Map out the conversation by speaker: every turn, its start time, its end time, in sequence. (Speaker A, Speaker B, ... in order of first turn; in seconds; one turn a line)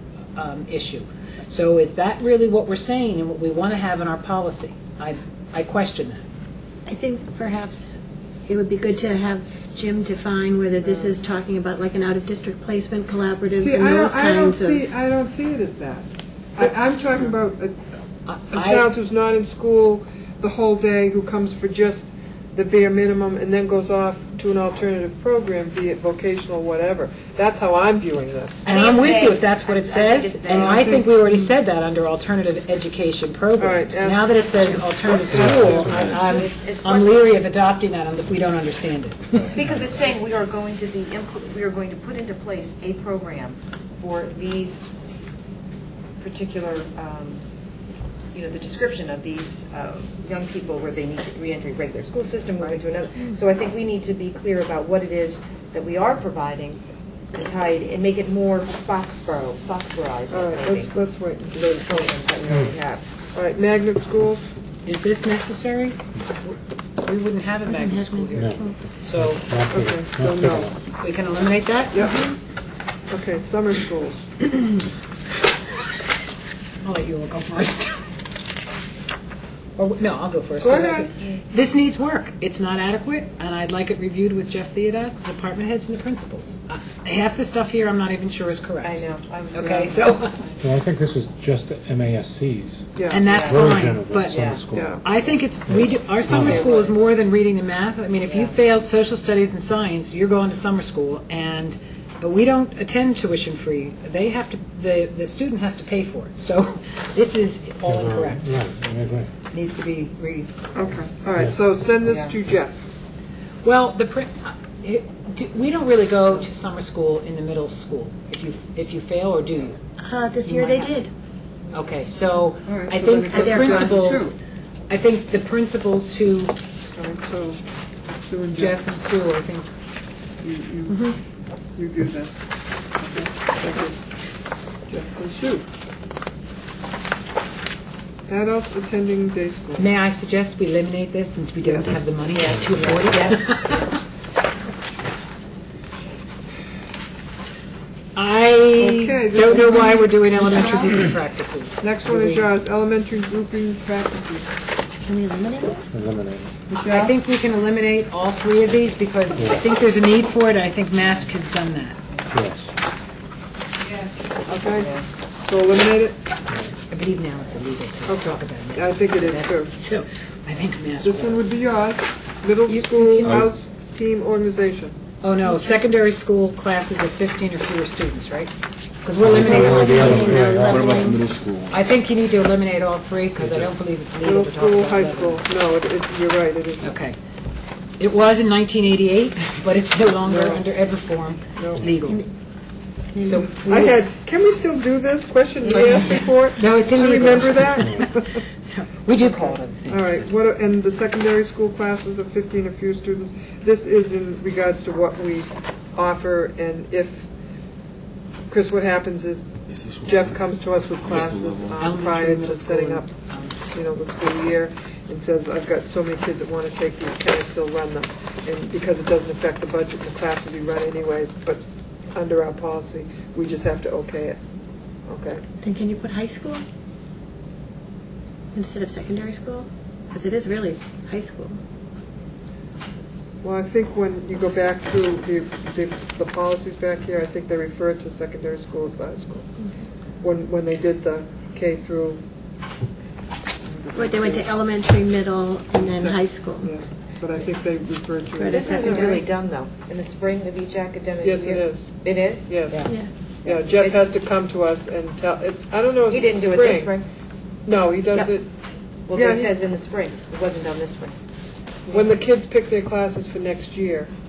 Speaker A: 0.4-6.2
Speaker B: 6.9-14.9
Speaker C: 10.8-11.2
Speaker C: 13.6-17.8
Speaker A: 18.2-18.9
Speaker C: 18.5-28.6
Speaker D: 28.6-31.0
Speaker A: 28.7-39.4
Speaker C: 30.5-31.1
Speaker C: 33.6-34.9
Speaker E: 35.3-36.4
Speaker D: 35.3-37.3
Speaker F: 35.4-36.4
Speaker E: 39.3-39.9
Speaker D: 39.5-44.9
Speaker D: 46.2-47.4
Speaker D: 48.3-56.8
Speaker D: 57.3-60.9
Speaker C: 60.3-62.1
Speaker D: 61.5-63.1
Speaker C: 63.3-64.5
Speaker A: 64.8-69.4
Speaker B: 67.7-68.8
Speaker E: 68.3-70.7
Speaker C: 69.7-70.7
Speaker A: 70.9-72.1
Speaker C: 71.9-72.3
Speaker B: 72.0-72.3
Speaker C: 73.1-74.3
Speaker A: 76.8-78.0
Speaker A: 79.8-90.4
Speaker C: 80.6-81.1
Speaker D: 88.8-90.7
Speaker E: 90.6-96.7
Speaker C: 93.0-93.3
Speaker A: 93.1-94.4
Speaker D: 93.2-94.7
Speaker C: 94.6-95.0
Speaker A: 95.0-108.6
Speaker D: 96.2-97.0
Speaker D: 98.2-98.5
Speaker E: 107.8-109.3
Speaker A: 109.5-110.9
Speaker C: 110.7-112.8
Speaker D: 112.1-112.3
Speaker A: 113.6-119.8
Speaker B: 120.0-121.1
Speaker A: 120.5-120.9
Speaker A: 121.7-124.3
Speaker C: 122.7-124.3
Speaker B: 123.3-124.3
Speaker A: 124.9-126.5
Speaker C: 127.0-127.6
Speaker C: 128.3-128.8
Speaker A: 128.6-129.7
Speaker C: 130.4-131.2
Speaker B: 130.9-131.2
Speaker C: 131.8-132.4
Speaker C: 133.0-134.0
Speaker C: 134.9-135.7
Speaker C: 138.3-139.9
Speaker A: 139.8-143.8
Speaker C: 141.6-142.1
Speaker D: 142.3-143.9
Speaker A: 148.2-152.5
Speaker C: 148.8-151.1
Speaker B: 150.4-150.8
Speaker C: 151.8-154.5
Speaker B: 155.1-155.8
Speaker E: 155.9-156.5
Speaker C: 156.7-157.2
Speaker A: 156.9-162.0
Speaker E: 162.3-162.7
Speaker D: 163.9-165.1
Speaker C: 164.5-164.9
Speaker C: 165.5-166.2
Speaker A: 166.9-171.4
Speaker C: 168.1-169.7
Speaker C: 171.0-174.9
Speaker A: 172.7-173.3
Speaker F: 173.2-173.5
Speaker A: 175.2-178.5
Speaker A: 179.0-180.6
Speaker E: 179.2-180.9
Speaker B: 179.4-181.2
Speaker F: 179.9-181.9
Speaker A: 181.7-185.4
Speaker F: 183.4-183.7
Speaker C: 184.2-186.9
Speaker A: 186.8-187.2
Speaker A: 188.0-192.2
Speaker C: 190.2-190.7
Speaker C: 191.6-191.9
Speaker B: 192.0-192.3
Speaker B: 193.1-193.9
Speaker A: 193.2-194.0
Speaker C: 193.6-198.3
Speaker A: 195.7-200.4
Speaker C: 199.2-207.3
Speaker C: 208.5-213.1
Speaker F: 209.7-211.9
Speaker A: 211.8-213.6
Speaker C: 213.7-224.4
Speaker C: 225.1-225.4
Speaker B: 225.6-226.6
Speaker B: 228.5-231.6
Speaker C: 233.4-239.5
Speaker C: 240.2-242.2
Speaker C: 243.6-244.5
Speaker B: 243.9-246.7
Speaker C: 245.8-249.2
Speaker B: 248.3-249.3
Speaker D: 248.5-252.5
Speaker C: 251.2-252.9
Speaker A: 252.7-252.9
Speaker D: 253.4-254.1
Speaker C: 253.4-257.0
Speaker D: 256.1-257.1
Speaker C: 257.6-258.5
Speaker D: 259.1-261.1
Speaker C: 259.1-259.6
Speaker C: 261.9-264.1
Speaker D: 261.9-262.1